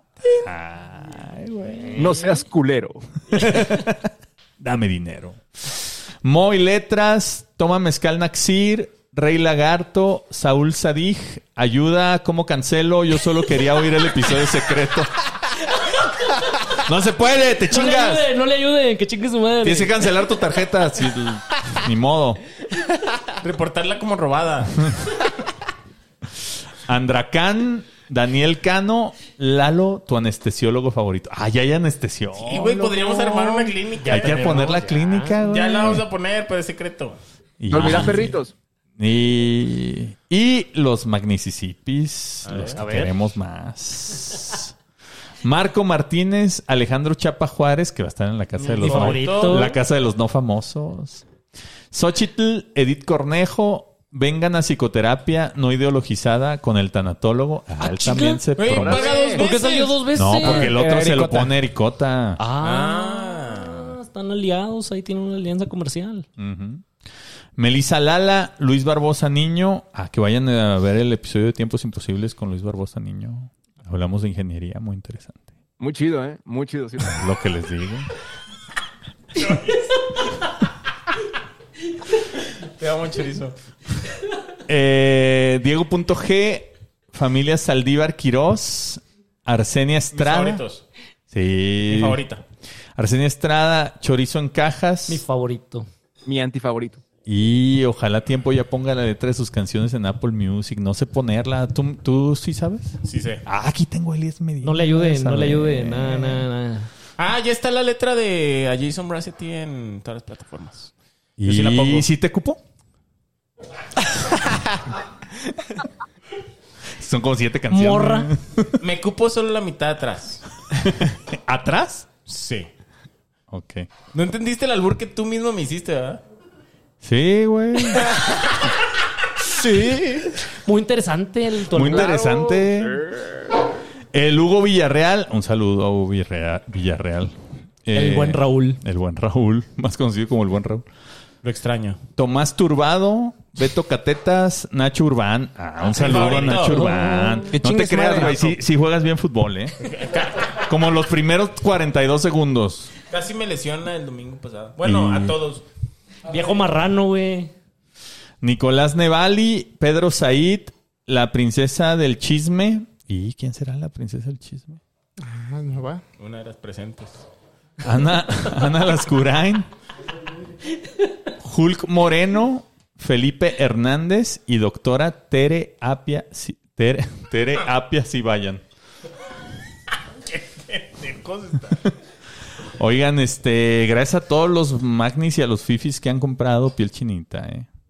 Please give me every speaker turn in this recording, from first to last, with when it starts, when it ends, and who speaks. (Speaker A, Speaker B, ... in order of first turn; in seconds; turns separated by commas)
Speaker A: 0.3-2.2, Speaker B: 1.8-2.1, Speaker C: 1.9-3.1, Speaker A: 3.3-15.1, Speaker A: 16.8-18.2, Speaker B: 17.6-20.1, Speaker A: 19.6-22.4, Speaker D: 23.4-24.9, Speaker A: 26.8-36.0, Speaker D: 32.4-34.6, Speaker B: 34.0-35.3, Speaker D: 35.4-37.2, Speaker A: 37.6-38.4, Speaker C: 37.7-38.5, Speaker A: 39.0-44.7, Speaker D: 42.4-42.8, Speaker B: 42.8-43.1, Speaker A: 45.4-51.2, Speaker D: 48.6-49.8, Speaker B: 48.8-49.7, Speaker A: 51.9-59.1, Speaker B: 57.8-58.4, Speaker D: 58.6-60.0, Speaker C: 58.8-59.4, Speaker B: 59.4-60.8, Speaker A: 60.1-62.4, Speaker E: 60.3-61.5, Speaker B: 62.4-66.2, Speaker D: 62.6-63.9, Speaker A: 66.4-66.9, Speaker A: 67.5-75.4, Speaker C: 75.8-77.2, Speaker A: 77.0-78.1, Speaker D: 79.3-79.9, Speaker D: 82.7-83.5, Speaker A: 84.7-90.6, Speaker D: 90.1-90.8, Speaker A: 91.3-92.2, Speaker D: 91.9-92.4, Speaker A: 93.0-95.2, Speaker B: 95.1-95.9, Speaker C: 96.2-97.0, Speaker A: 97.2-106.5, Speaker D: 103.0-103.4, Speaker B: 104.6-106.9, Speaker D: 107.2-110.9, Speaker A: 111.4-112.6, Speaker D: 111.4-112.1, Speaker A: 117.0-118.8, Speaker B: 117.7-118.3, Speaker D: 118.8-120.5, Speaker A: 120.7-122.1, Speaker D: 122.3-122.7, Speaker A: 123.5-123.9, Speaker D: 124.1-126.2, Speaker A: 127.0-128.1, Speaker D: 129.6-130.0, Speaker B: 130.6-132.1, Speaker A: 131.7-133.0, Speaker D: 132.1-132.3, Speaker A: 134.1-140.8, Speaker B: 137.9-138.8, Speaker D: 141.4-142.0, Speaker A: 142.2-149.8, Speaker D: 145.9-146.8, Speaker B: 146.4-147.5, Speaker E: 147.5-148.5, Speaker D: 149.8-150.7, Speaker A: 150.6-152.9, Speaker D: 153.1-155.6, Speaker A: 154.8-155.4, Speaker B: 156.3-157.5, Speaker A: 158.4-164.8, Speaker E: 165.2-166.0, Speaker D: 166.2-167.2, Speaker A: 167.8-169.7, Speaker A: 171.4-178.6, Speaker D: 180.2-181.9, Speaker A: 182.8-187.7